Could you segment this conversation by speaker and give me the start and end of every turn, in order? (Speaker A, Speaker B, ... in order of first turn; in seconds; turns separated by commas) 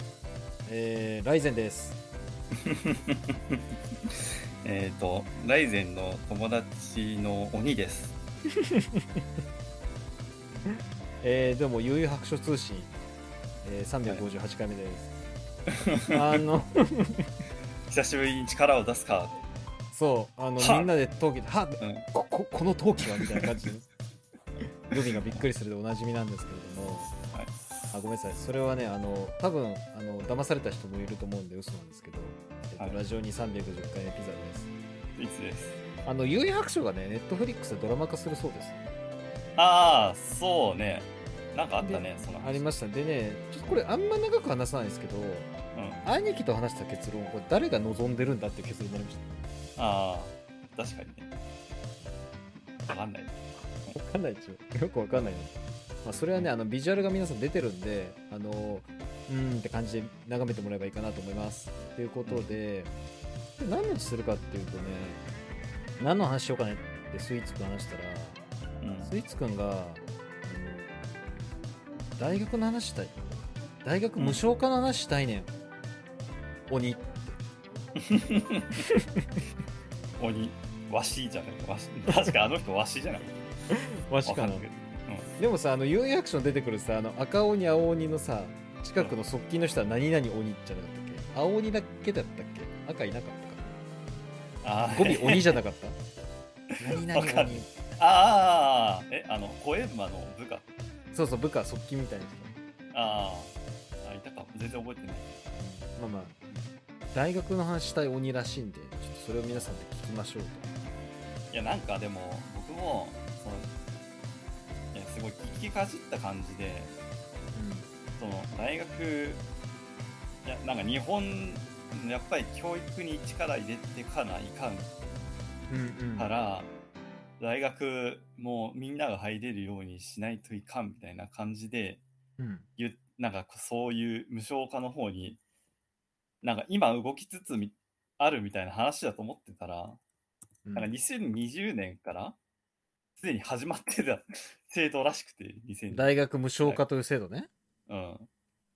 Speaker A: 0.6-2.0, Speaker B: 2.6-3.6, Speaker B: 4.6-8.2, Speaker A: 8.6-9.2, Speaker A: 10.7-12.9, Speaker A: 13.6-15.1, Speaker B: 15.7-16.4, Speaker A: 16.1-17.2, Speaker B: 17.9-19.4, Speaker A: 19.9-23.8, Speaker B: 20.6-20.9, Speaker B: 21.8-22.1, Speaker B: 23.2-23.4, Speaker A: 24.9-27.1, Speaker A: 27.9-34.7, Speaker B: 35.1-35.8, Speaker A: 36.0-38.8, Speaker B: 39.6-42.6, Speaker A: 41.8-45.5, Speaker B: 45.7-46.1, Speaker A: 46.0-49.2, Speaker B: 49.8-51.3, Speaker B: 52.9-53.9, Speaker A: 53.9-55.5, Speaker A: 56.0-62.9, Speaker B: 62.2-62.5, Speaker A: 63.6-65.2, Speaker A: 66.0-68.4, Speaker B: 68.8-69.1, Speaker A: 69.0-71.1, Speaker A: 72.2-73.3, Speaker A: 73.8-75.5, Speaker A: 76.7-77.4, Speaker B: 78.0-78.8, Speaker A: 78.9-79.2, Speaker B: 80.2-83.4, Speaker A: 82.1-82.3, Speaker A: 83.7-84.6, Speaker B: 84.2-85.3, Speaker A: 85.4-93.7, Speaker B: 94.6-95.6, Speaker A: 94.9-96.0, Speaker A: 96.8-97.7, Speaker B: 96.9-100.7, Speaker A: 101.1-102.5, Speaker B: 102.9-103.5, Speaker B: 104.0-105.4, Speaker A: 105.6-106.3, Speaker A: 107.1-110.7, Speaker B: 111.5-113.7, Speaker B: 114.9-116.9, Speaker A: 117.5-117.9, Speaker B: 118.2-119.4, Speaker B: 120.4-124.9, Speaker A: 125.7-126.3, Speaker B: 126.2-126.7, Speaker B: 127.4-132.0, Speaker A: 132.4-132.6, Speaker B: 132.8-135.4, Speaker B: 136.4-140.0, Speaker B: 140.7-142.3, Speaker B: 143.2-146.8, Speaker A: 145.9-147.5, Speaker B: 147.9-148.3